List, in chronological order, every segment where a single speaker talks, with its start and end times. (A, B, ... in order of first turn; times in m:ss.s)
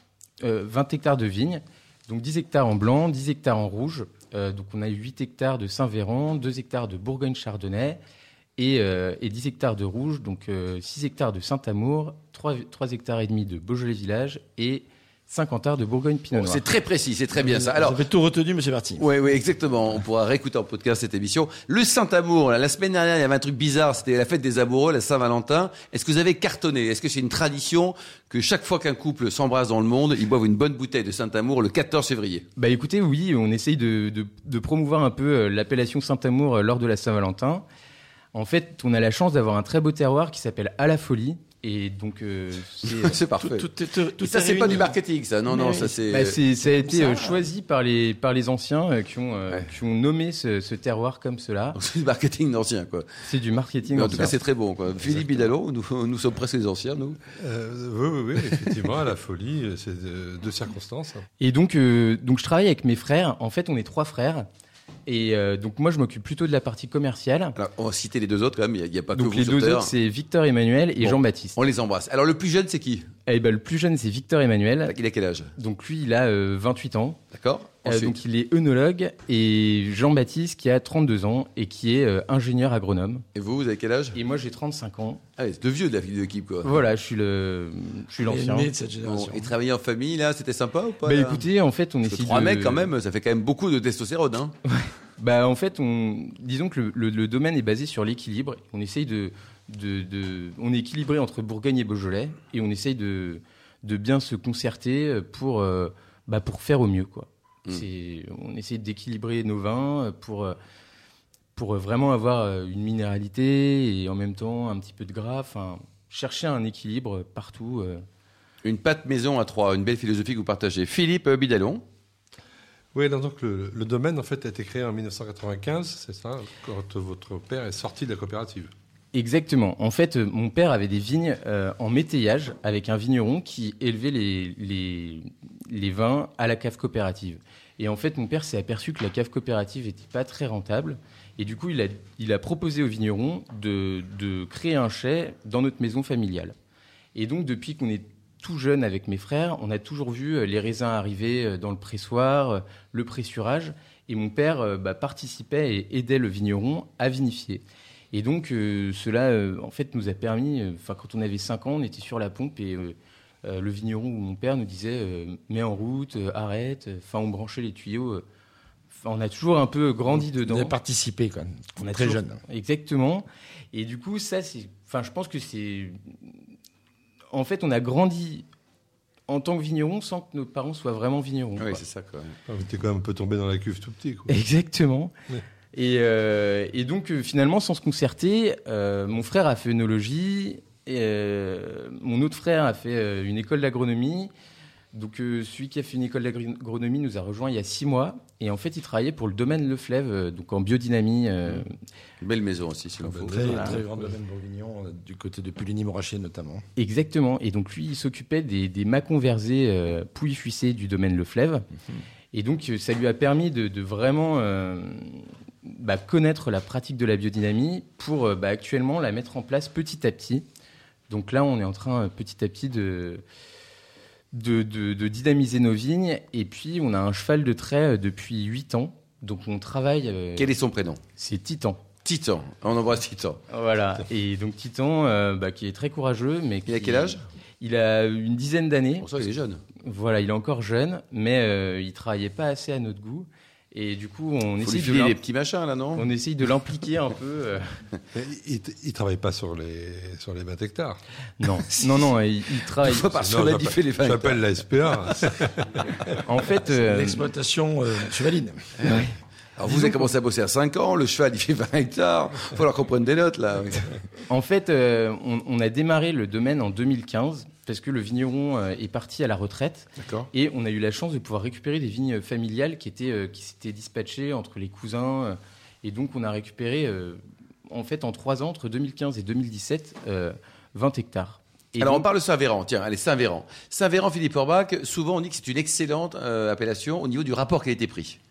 0:00.4-0:08.0 A
0:08.6-0:16.6 A
0:16.3-0:18.0 B
0:17.3-0:19.1 C
0:19.0-0:32.5 B
0:32.6-0:37.6 A
0:38.3-0:43.2 A
0:42.8-0:46.4 B
0:43.4-0:46.2 C
0:45.9-0:51.8 A
0:46.7-0:47.4 C
0:51.8-0:53.1 B
0:53.2-0:54.3 A
0:53.9-0:57.2 B
0:57.4-1:01.3 D
1:01.4-1:04.5 A
1:05.1-1:07.6 A
1:07.6-1:09.9 B
1:09.2-1:11.6 A
1:11.0-1:13.1 B
1:13.3-1:15.0 A
1:14.9-1:15.5 B
1:15.6-1:17.2 A
1:17.3-1:18.1 B
1:17.8-1:23.3 A
1:23.4-1:24.2 B
1:24.2-1:25.2 A
1:25.4-1:26.8 B
1:26.6-1:28.7 A
1:28.2-1:29.5 C
1:29.0-1:31.5 B
1:31.0-1:32.9 A
1:32.0-1:34.6 B
1:34.7-1:50.6 A
1:51.6-1:58.0 A
1:58.6-2:01.8 B
2:02.9-2:08.7 D
2:09.1-2:26.6 A
2:27.2-2:48.2 A
2:48.9-2:50.8 A
2:50.1-2:52.4 C
2:51.8-2:56.4 A
2:57.3-2:58.4 A
2:59.3-3:01.8 A
3:01.6-3:02.4 B
3:02.5-3:04.3 D
3:04.3-3:05.1 A
3:05.7-3:14.3 A
3:14.9-3:21.8 A
3:22.2-3:23.7 B
3:23.0-3:23.9 D
3:23.3-3:26.6 C
3:23.4-3:23.8 A
3:26.8-3:31.7 A
3:32.3-3:40.4 A
3:41.1-3:43.2 A
3:44.3-3:50.6 A
3:50.4-3:51.0 B
3:51.2-3:51.8 A
3:52.0-3:53.4 B
3:53.5-3:59.1 A
3:56.7-3:57.2 B
3:59.0-3:59.6 B
3:59.8-4:05.2 A
4:04.6-4:06.1 B
4:06.0-4:07.7 A
4:08.2-4:11.0 D
4:11.4-4:13.4 A
4:12.8-4:14.5 B
4:13.3-4:16.2 D
4:16.2-4:17.3 A
4:16.7-4:18.8 C
4:19.6-4:23.9 B
4:24.3-4:42.1 A
4:30.0-4:30.3 B
4:41.8-4:48.2 B